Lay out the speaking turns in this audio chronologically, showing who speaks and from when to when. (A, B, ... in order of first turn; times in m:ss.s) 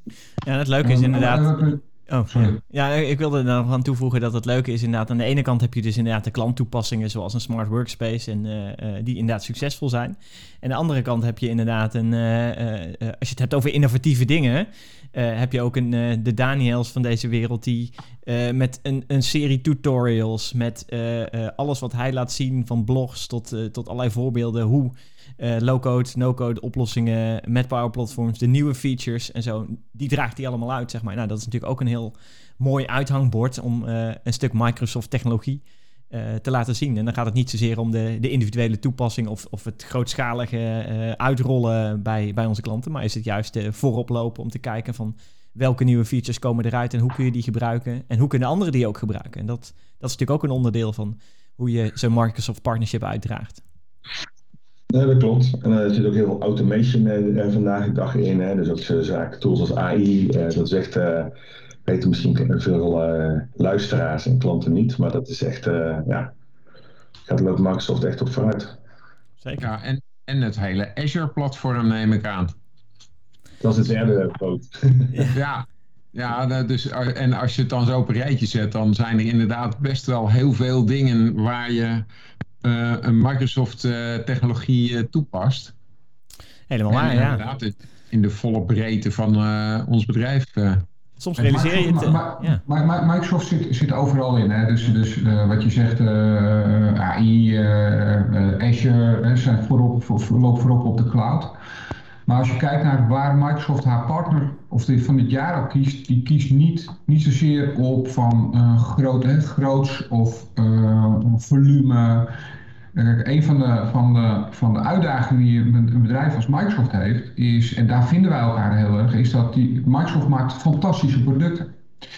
0:00.4-0:53.6 A
0:00.8-0:02.6 B
0:54.9-1:01.3 C
1:01.9-1:06.3 C
1:07.3-1:08.8 C
1:09.4-1:09.7 A
1:09.6-1:12.5 D
1:13.6-1:15.3 C
1:15.1-1:15.4 A
1:15.3-1:22.0 D
1:22.6-1:25.7 D
1:26.7-1:27.4 A
1:26.9-1:30.8 D
1:31.2-1:32.6 A
1:31.4-1:41.6 B
1:42.3-1:52.4 B
1:52.9-2:01.8 B